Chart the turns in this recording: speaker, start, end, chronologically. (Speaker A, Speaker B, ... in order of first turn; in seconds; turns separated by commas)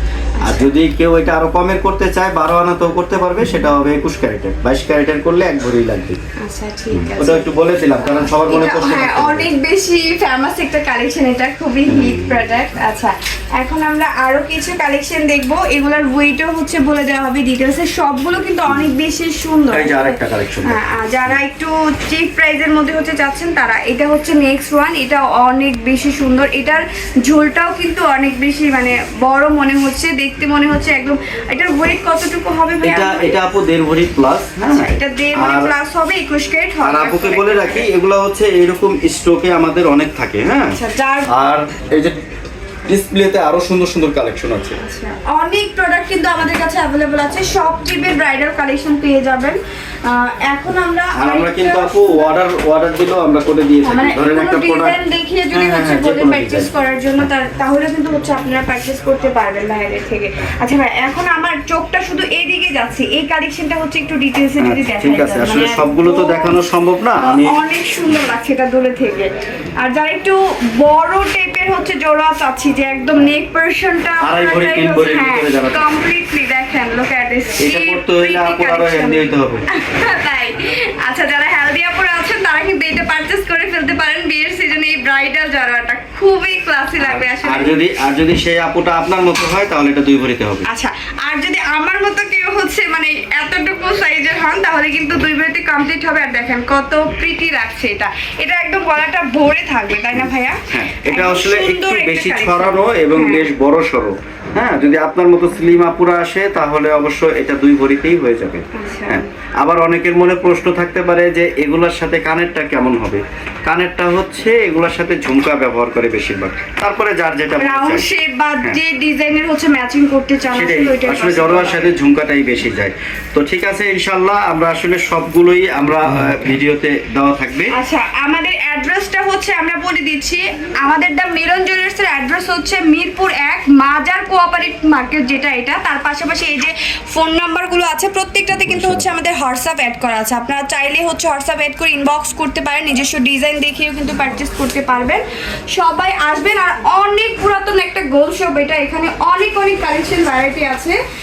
Speaker A: 0.4-0.7, Speaker B: 0.4-6.2, Speaker A: 6.4-7.5, Speaker B: 6.9-9.5, Speaker A: 8.0-33.4, Speaker B: 11.9-12.4, Speaker B: 19.7-21.4, Speaker B: 32.8-35.7, Speaker A: 34.7-37.9, Speaker B: 36.8-40.8, Speaker A: 40.7-41.3, Speaker B: 41.3-42.1, Speaker B: 42.9-44.8, Speaker A: 44.8-52.3, Speaker B: 51.1-55.0, Speaker A: 53.8-66.6, Speaker B: 55.5-56.7, Speaker B: 64.6-67.5, Speaker A: 67.2-87.7, Speaker B: 74.2-75.9, Speaker B: 77.6-79.6, Speaker B: 87.0-90.7, Speaker A: 90.7-103.5, Speaker B: 100.1-118.1, Speaker A: 108.7-109.2, Speaker A: 117.6-121.9, Speaker B: 120.5-127.7, Speaker A: 127.7-145.2, Speaker B: 138.5-139.1, Speaker A: 145.7-150.9